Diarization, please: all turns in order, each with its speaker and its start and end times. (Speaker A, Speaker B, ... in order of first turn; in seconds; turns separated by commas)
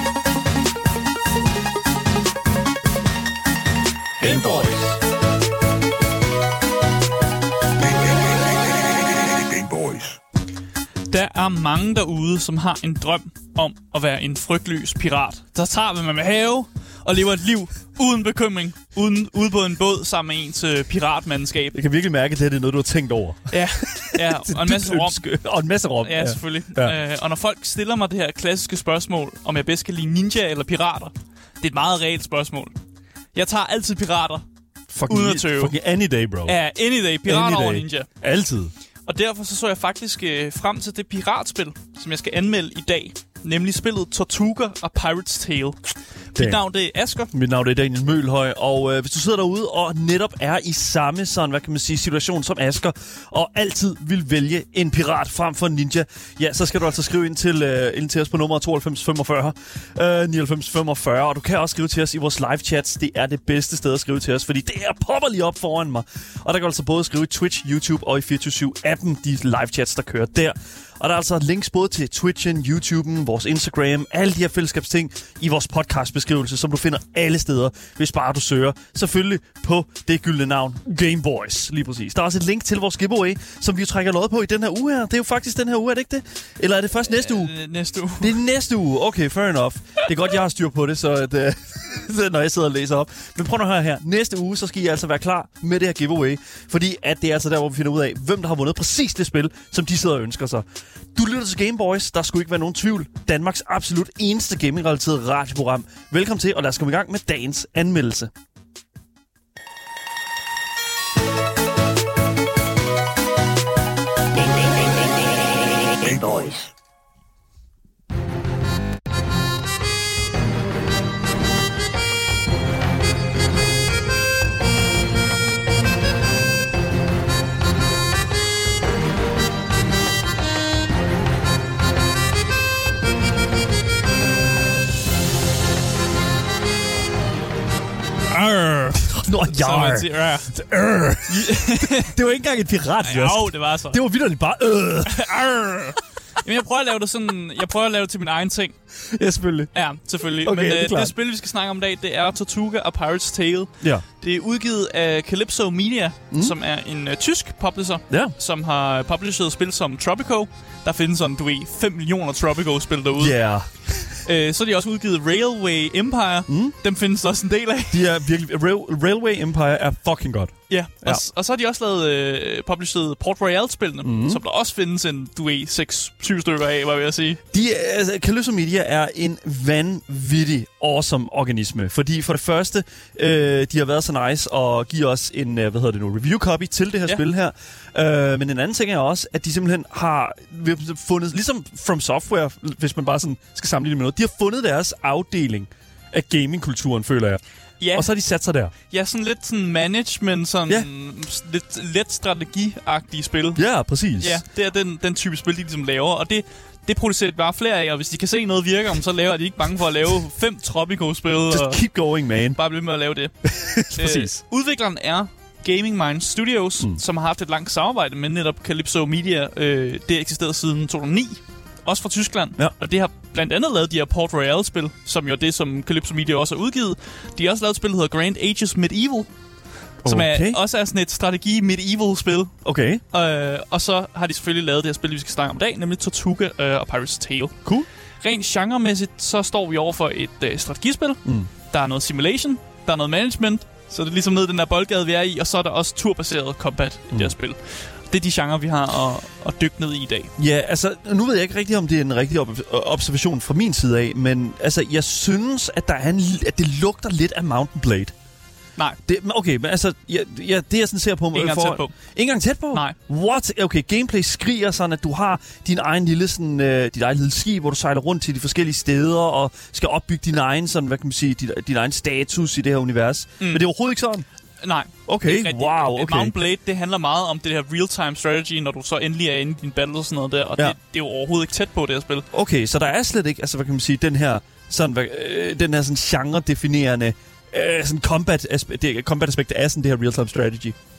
Speaker A: 4.2-5.0, Speaker A: 7.9-10.2, Speaker B: 11.1-21.8, Speaker C: 21.7-26.9, Speaker B: 23.5-25.2, Speaker B: 26.0-32.7, Speaker B: 33.3-34.4, Speaker C: 34.9-36.5, Speaker B: 35.1-35.7, Speaker B: 36.5-38.1, Speaker C: 37.2-38.7, Speaker B: 39.1-45.8, Speaker B: 46.3-47.3, Speaker C: 46.4-46.6, Speaker C: 47.3-87.5, Speaker B: 87.1-88.4, Speaker C: 88.2-108.3, Speaker A: 114.3-115.2, Speaker A: 115.8-116.7, Speaker C: 138.3-145.6, Speaker B: 138.4-138.9, Speaker B: 139.4-140.5, Speaker B: 141.3-142.1, Speaker B: 143.0-144.0, Speaker B: 145.1-148.7, Speaker C: 149.0-149.7, Speaker B: 149.7-163.3, Speaker C: 150.4-151.1, Speaker C: 163.2-164.2, Speaker B: 164.2-168.0, Speaker C: 166.5-166.7, Speaker C: 167.9-171.2, Speaker B: 170.7-177.4, Speaker C: 174.0-174.4, Speaker C: 177.5-197.4, Speaker B: 197.8-198.1, Speaker C: 197.9-198.7, Speaker B: 198.9-203.6, Speaker C: 203.6-204.4, Speaker B: 204.2-211.8, Speaker C: 211.5-212.6, Speaker B: 212.5-213.3, Speaker C: 213.4-214.4, Speaker B: 213.9-229.3, Speaker C: 230.0-230.6, Speaker B: 230.0-232.6, Speaker C: 232.6-233.0, Speaker B: 233.1-237.6, Speaker B: 238.2-250.3, Speaker C: 241.2-241.5, Speaker C: 250.4-258.1, Speaker C: 259.0-274.2, Speaker B: 261.3-261.9, Speaker B: 274.6-282.2, Speaker C: 275.1-276.4, Speaker C: 282.3-290.8